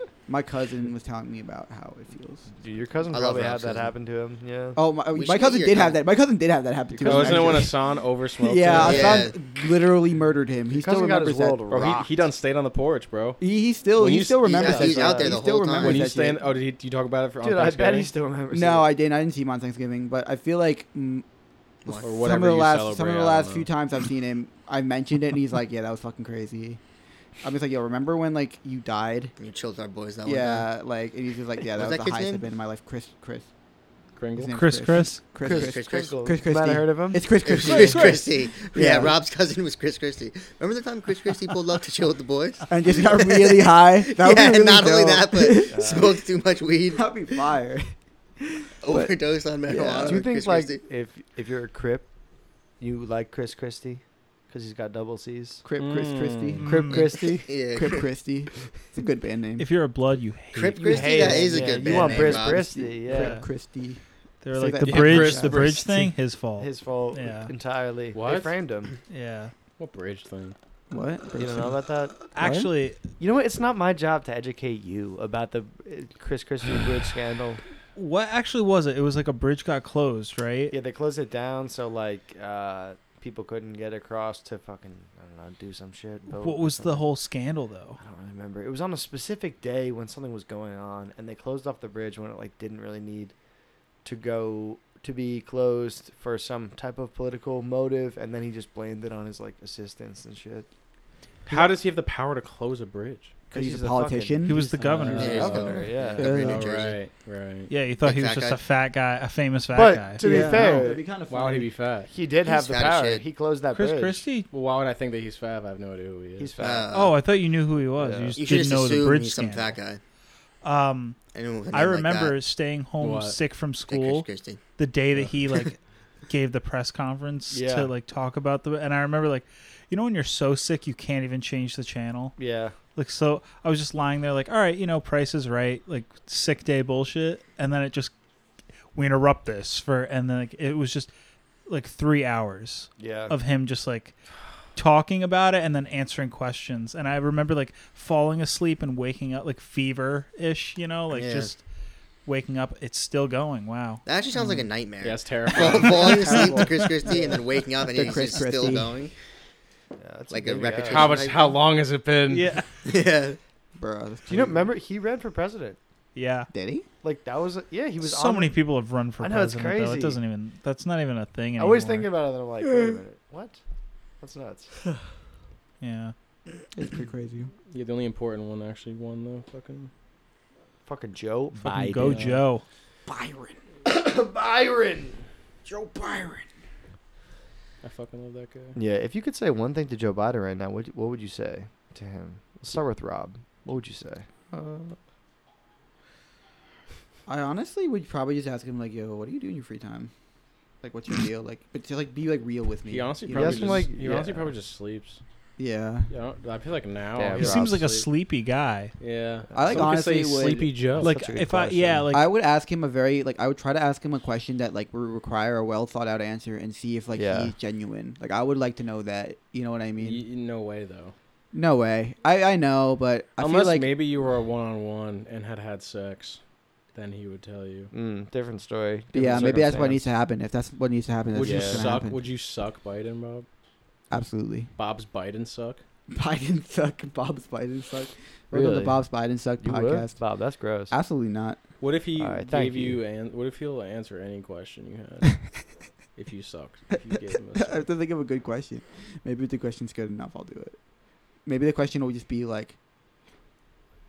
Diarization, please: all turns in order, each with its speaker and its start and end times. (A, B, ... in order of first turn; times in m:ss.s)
0:00.3-0:02.5 A
0:02.6-0:04.8 B
0:03.1-0:03.9 C
0:04.8-0:07.8 A
0:05.1-0:06.0 C
0:06.9-0:07.6 B
0:07.0-0:09.3 D
0:08.4-0:11.7 A
0:08.7-0:09.4 C
0:10.7-0:12.1 B
0:11.7-0:13.4 D
0:13.4-0:16.4 A
0:14.0-0:14.8 D
0:14.5-0:16.1 C
0:14.6-0:15.4 B
0:15.8-0:18.1 D
0:17.4-0:18.8 B
0:18.5-0:21.2 A
0:21.8-0:22.2 C
0:22.0-0:23.7 D
0:22.0-0:26.8 A
0:27.4-0:29.3 A
0:29.4-0:30.7 C
0:30.2-0:33.5 A
0:31.7-0:32.4 C
0:34.2-0:34.5 D
0:34.3-0:39.2 A
0:34.5-0:35.2 E
0:35.4-0:37.4 B
0:35.4-0:36.2 C
0:37.4-0:47.2 C
0:37.6-0:38.2 D
0:42.7-0:46.2 A
0:45.7-0:46.2 B
0:46.9-0:49.1 A
0:48.8-0:50.8 C
0:49.7-0:50.2 A
0:49.7-0:52.1 B
0:52.8-0:55.6 B
0:55.6-0:57.0 A
0:55.8-0:56.6 D
0:56.6-0:57.0 E
0:56.6-0:57.5 B
0:56.9-0:58.1 C
0:57.6-0:59.7 A
0:59.6-1:01.1 E
1:00.5-1:02.7 C
1:00.7-1:03.4 B
1:01.1-1:04.0 A
1:03.1-1:03.4 E
1:04.4-1:07.5 E
1:04.5-1:05.6 A
1:04.8-1:06.0 D
1:05.0-1:05.7 B
1:06.6-1:08.9 B
1:08.1-1:08.5 D
1:09.1-1:09.5 E
1:09.8-1:10.5 D
1:10.9-1:11.8 A
1:11.4-1:12.2 B
1:12.3-1:13.0 E
1:12.4-1:12.7 A
1:13.2-1:17.6 B
1:18.0-1:20.8 E
1:20.7-1:27.0 B
1:26.3-1:28.0 E
1:28.0-1:33.3 B
1:34.0-1:40.7 B
1:41.4-1:43.3 D
1:41.5-1:41.7 B
1:43.5-1:46.4 B
1:43.5-1:46.7 A
1:44.4-1:45.5 E
1:44.8-1:47.7 D
1:45.2-1:47.0 C
1:47.7-1:50.8 E
1:48.0-1:48.6 C
1:49.7-1:51.1 B
1:50.2-1:51.7 A
1:51.2-1:52.1 D
1:52.1-1:54.2 B
1:52.4-1:53.2 C
1:53.7-1:54.5 E
1:54.5-1:56.5 D
1:56.4-1:56.9 B
1:56.6-1:57.2 C
1:56.9-1:59.8 E
1:58.0-1:58.4 B
1:58.4-2:00.0 C
2:00.6-2:01.2 E
2:01.3-2:02.4 C
2:01.7-2:04.2 E
2:03.0-2:03.4 D
2:03.9-2:04.6 C
2:04.8-2:05.8 E
2:06.3-2:12.4 E
2:07.5-2:07.9 B
2:12.4-2:12.8 B
2:12.9-2:18.1 E
2:18.9-2:21.1 E
2:21.7-2:24.1 E
2:23.0-2:23.3 B
2:24.7-2:31.6 E
2:31.1-2:31.5 C
2:32.2-2:34.0 E
2:34.0-2:39.1 C
2:34.4-2:34.6 A
2:35.0-2:36.3 D
2:36.2-2:37.3 A
2:37.9-2:39.0 A
2:40.0-2:41.2 B
2:40.3-2:41.6 C
2:40.8-2:42.5 D
2:42.3-2:42.7 E
2:42.8-2:43.4 C
2:43.8-2:44.7 A
2:44.3-2:45.8 B
2:46.1-2:46.5 E
2:46.5-2:46.9 A
2:47.0-2:48.6 B
2:48.0-2:52.1 E
2:49.2-2:50.2 B
2:51.6-2:53.6 B
2:54.2-2:54.8 B
2:55.8-2:56.1 E
2:56.7-2:57.5 A
2:57.7-2:59.9 D
3:00.8-3:02.4 B
3:01.6-3:02.6 E
3:03.0-3:03.6 A
3:03.8-3:05.2 B
3:05.6-3:06.4 A
3:07.8-3:08.8 D
3:08.7-3:14.2 B
3:14.5-3:15.0 A
3:17.3-3:20.1 A
3:20.8-3:23.9 A
3:22.9-3:25.2 D
3:23.3-3:24.5 B
3:25.6-3:26.1 A
3:26.1-3:28.1 D
3:27.2-3:27.8 B
3:27.3-3:28.9 E
3:29.0-3:31.1 D
3:29.5-3:30.0 B
3:29.5-3:30.7 A
3:30.9-3:32.1 B
3:31.0-3:32.3 E
3:32.1-3:40.2 A
3:37.2-3:37.5 B
3:40.0-3:41.1 D
3:41.5-3:43.9 A
3:43.4-3:46.4 D
3:46.9-3:47.9 D
3:47.9-3:50.0 B
3:49.1-3:52.2 A
3:51.3-3:53.4 D
3:51.4-3:52.0 B
3:54.1-3:54.7 A
3:54.8-3:55.8 D
3:56.1-4:00.2 A
3:58.5-3:59.0 B
3:59.6-4:00.9 B
4:00.9-4:01.6 A
4:01.8-4:05.6 D
4:02.1-4:03.0 B
4:06.1-4:07.8 D
4:07.0-4:10.8 A
4:11.4-4:12.8 A